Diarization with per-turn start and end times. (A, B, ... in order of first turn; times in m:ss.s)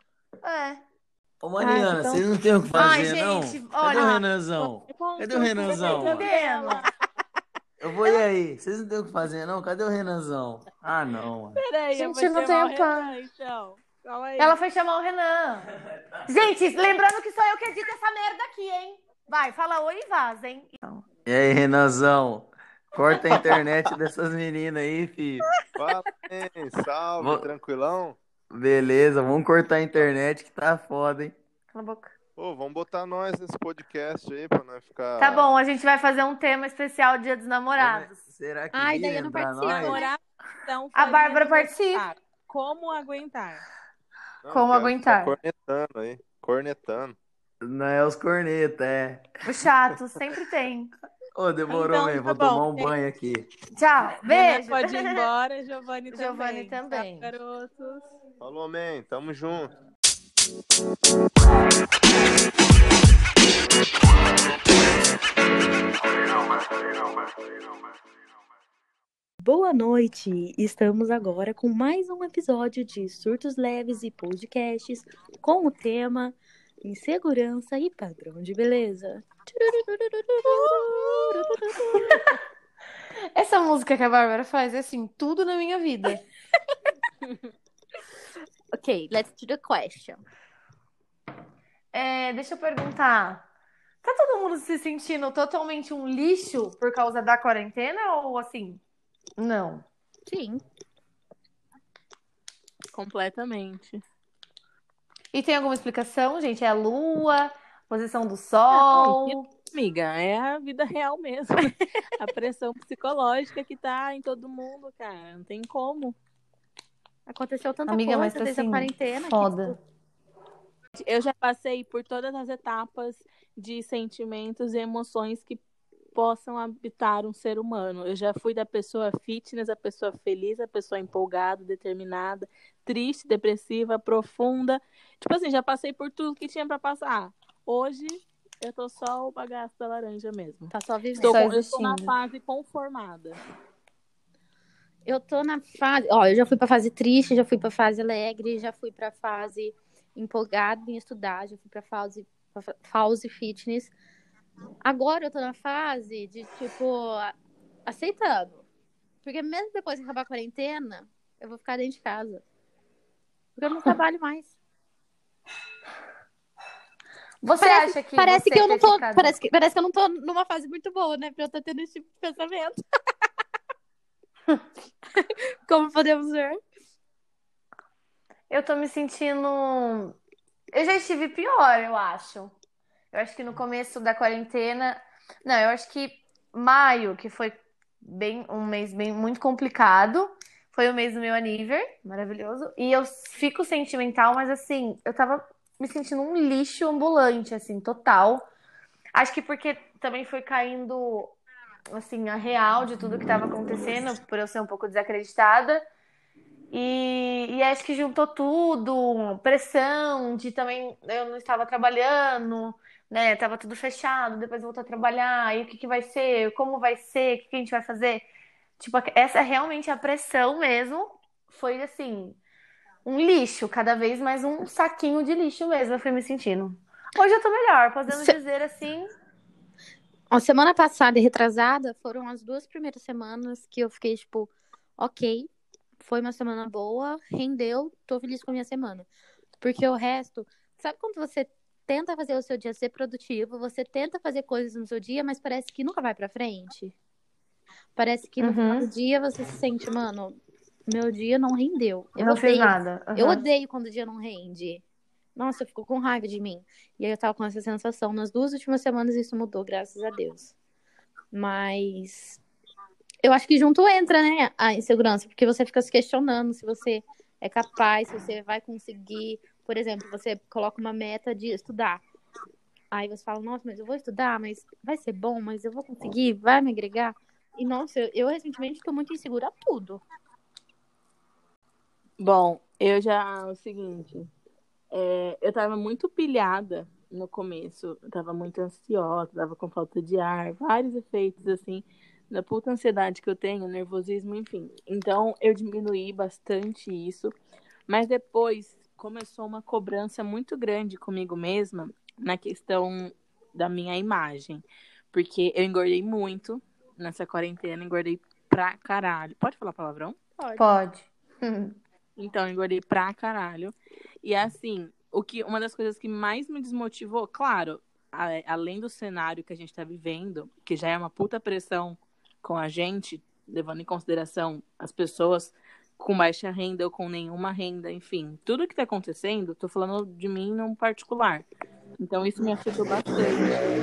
0:00.4-0:00.8 A
0:01.4-0:06.3 B
0:01.6-0:02.2 C
0:02.7-0:04.2 A
0:03.9-0:06.9 C
0:05.6-0:06.8 A
0:07.8-0:11.6 B
0:11.6-0:14.6 C
0:11.9-0:13.1 A
0:14.4-0:15.7 A
0:16.3-0:21.0 A
0:21.2-0:25.4 B
0:25.8-0:28.2 D
0:27.2-0:27.5 B
0:28.5-0:31.4 B
0:31.7-0:32.1 A
0:32.4-0:35.5 D
0:35.2-0:38.2 A
0:37.8-0:40.0 B
0:38.7-0:40.1 E
0:39.6-0:43.6 C
0:41.0-0:42.0 A
0:44.4-0:47.2 D
0:44.5-0:45.3 A
0:47.6-0:49.6 B
0:49.4-0:50.9 A
0:51.3-0:53.4 B
0:51.7-0:52.9 C
0:53.8-0:55.2 A
0:54.2-0:58.0 C
0:56.1-0:57.3 A
0:58.4-0:59.7 D
1:09.4-1:22.2 E
1:20.4-1:21.1 C
1:23.3-1:26.2 A
1:28.7-1:30.2 E
1:31.9-1:33.5 A
1:34.0-1:38.8 A
1:39.4-1:39.8 A
1:40.2-1:40.6 E
1:42.9-1:44.0 C
1:45.3-1:49.5 A
1:48.7-1:56.1 C
1:57.3-1:59.8 E
1:57.9-1:59.8 A
2:01.0-2:05.6 C
2:06.1-2:23.4 C
2:20.7-2:21.4 E
2:21.2-2:22.1 A
2:25.1-2:33.9 E
2:34.8-2:37.3 E
2:37.8-2:38.6 E
2:39.2-2:42.4 E
2:43.6-2:44.5 E
2:47.4-2:49.4 A
2:47.6-2:52.8 E
2:55.2-2:56.6 E
2:58.5-3:00.2 A
3:00.7-3:02.5 A
3:03.1-3:18.4 A
3:19.1-3:21.4 A
3:21.9-3:25.8 A
3:26.7-3:38.2 A
3:38.8-3:42.4 A
3:43.0-3:49.1 A
3:48.1-3:48.4 E
3:50.3-3:55.5 E
3:56.0-3:59.0 E
3:59.6-4:06.9 E
4:08.0-4:14.8 E
4:08.4-4:08.9 A
4:12.2-4:13.4 A
4:15.3-4:20.5 E
4:21.3-4:22.4 E
4:23.2-4:32.0 E
4:32.9-4:40.0 E
4:42.2-4:44.3 C
4:44.9-4:57.3 C
4:57.9-5:10.2 C
5:10.4-5:10.7 E
5:10.6-5:11.8 A
5:12.2-5:31.4 C
5:32.0-5:33.5 C